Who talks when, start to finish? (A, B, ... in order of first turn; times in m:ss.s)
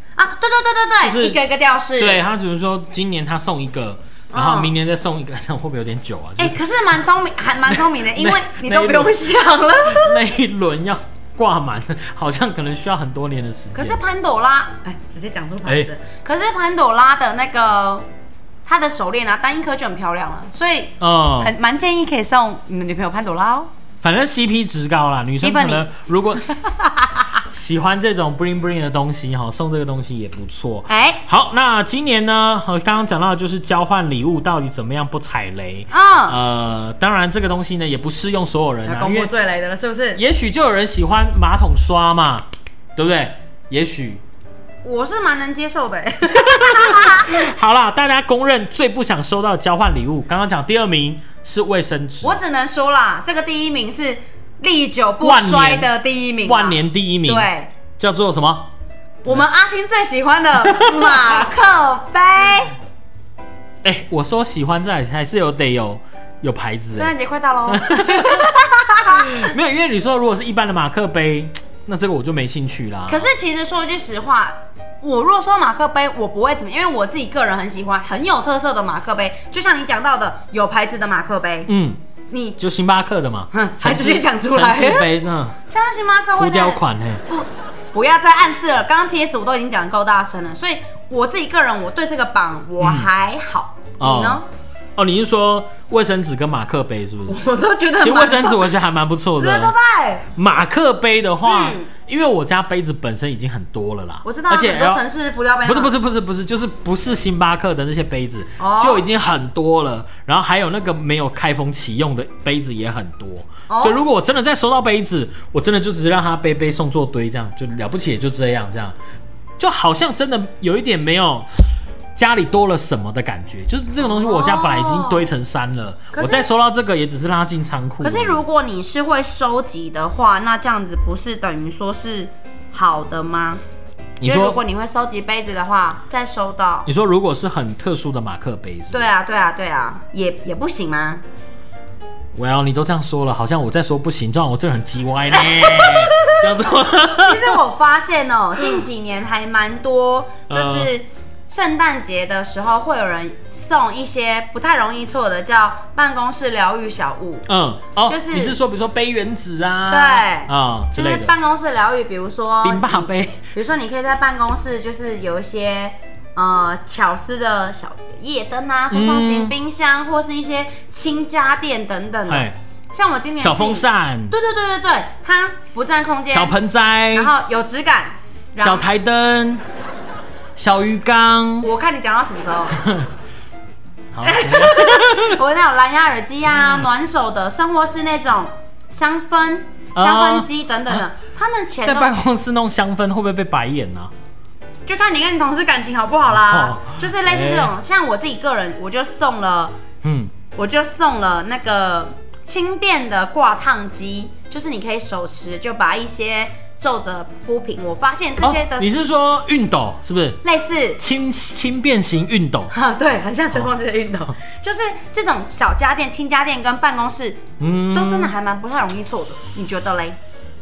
0:00.2-0:02.2 A
0:01.0-0:01.4 B
0:02.0-0:06.6 B
0:04.3-0:04.7 A
0:06.4-0:10.2 A
0:07.7-0:09.2 B
0:09.8-0:14.0 B
0:13.7-0:18.0 A
0:15.6-0:15.9 B
0:18.6-0:23.7 A
0:21.0-0:21.5 B
0:24.0-0:26.6 B
0:25.4-0:25.8 A
0:26.6-0:27.3 A
0:27.4-0:39.3 B
0:30.9-0:31.2 A
0:35.9-0:36.4 A
0:38.8-0:40.2 A
0:40.2-0:44.2 B
0:44.8-0:47.3 A
0:46.4-0:52.4 B
0:52.2-0:57.7 A
0:55.2-0:58.7 B
0:59.2-1:02.7 A
1:00.6-1:01.5 B
1:03.8-1:07.1 B
1:06.9-1:09.4 A
1:07.7-1:13.3 B
1:13.1-1:21.7 A
1:21.7-1:22.0 B
1:22.3-1:22.6 A
1:22.6-1:25.6 B
1:23.5-1:25.1 A
1:25.7-1:34.4 A
1:26.3-1:27.2 B
1:32.8-1:33.1 B
1:34.0-1:34.4 B
1:35.0-1:37.4 B
1:37.3-1:38.7 A
1:38.0-1:39.7 B
1:39.4-1:40.3 A
1:40.3-1:45.0 B
1:41.4-1:41.9 A
1:44.2-1:45.9 A
1:45.6-1:59.0 B
1:48.6-1:49.0 A
1:53.7-1:54.0 A
1:59.6-2:08.4 B
2:04.0-2:05.3 A
2:06.1-2:06.5 A
2:08.0-2:13.6 A
2:14.2-2:14.6 B
2:14.2-2:16.9 A
2:16.8-2:19.1 B
2:18.9-2:21.2 A
2:22.3-2:27.6 B
2:25.4-2:26.4 A
2:27.1-2:37.5 A
2:30.5-2:30.9 B
2:37.5-2:41.3 B
2:38.1-2:38.6 A
2:39.9-2:56.6 A
2:42.6-2:43.5 B
2:48.9-2:49.5 B
2:52.3-2:52.6 B
2:53.4-2:54.3 B
2:56.3-2:57.3 B
2:57.1-2:58.8 A
2:58.6-2:59.6 B
3:00.6-3:01.7 B
3:01.6-3:02.8 A
3:02.8-3:03.1 B
3:04.1-3:05.4 B
3:04.2-3:12.1 A
3:06.5-3:06.9 B
3:09.9-3:11.0 B
3:11.8-3:14.1 B
3:14.8-3:19.7 A
3:16.3-3:17.7 B
3:20.0-3:20.3 B
3:20.5-3:28.9 A
3:28.4-3:30.4 B
3:30.4-3:31.0 A
3:31.0-3:32.7 B
3:32.7-3:40.2 A
3:37.6-3:38.3 B